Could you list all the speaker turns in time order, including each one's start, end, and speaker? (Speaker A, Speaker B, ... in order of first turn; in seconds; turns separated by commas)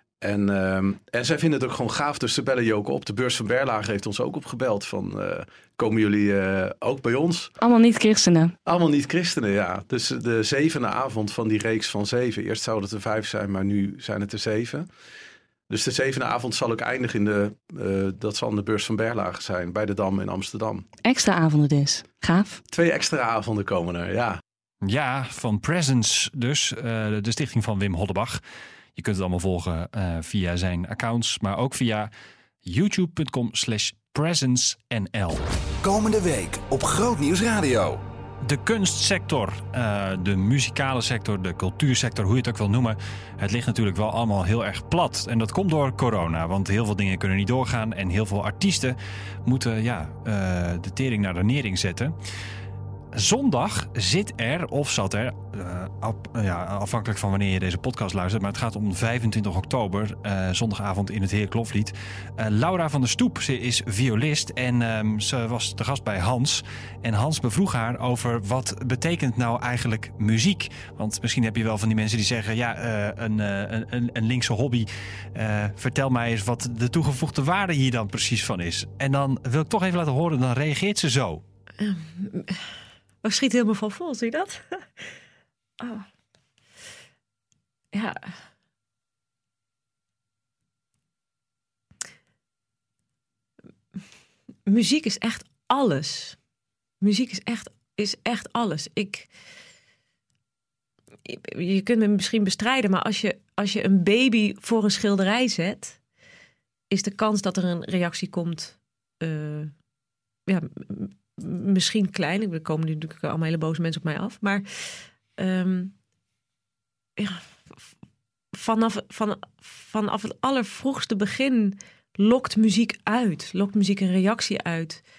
Speaker A: 0.2-7.5, Speaker B: 7.6-8.6, Speaker A: 8.7-14.9, Speaker A: 15.7-20.9, Speaker B: 21.1-22.6, Speaker A: 22.7-24.4, Speaker C: 24.8-28.4, Speaker C: 29.0-32.1, Speaker C: 32.6-35.4, Speaker D: 35.8-38.0, Speaker C: 38.4-52.1, Speaker C: 53.1-81.4, Speaker E: 81.8-82.6, Speaker E: 83.2-85.0, Speaker E: 85.8-86.1, Speaker E: 87.9-88.4, Speaker E: 94.7-96.4, Speaker E: 97.0-99.3, Speaker E: 101.3-106.0, Speaker E: 106.9-109.8, Speaker E: 110.5-116.0, Speaker E: 117.2-117.5, Speaker E: 118.5-125.0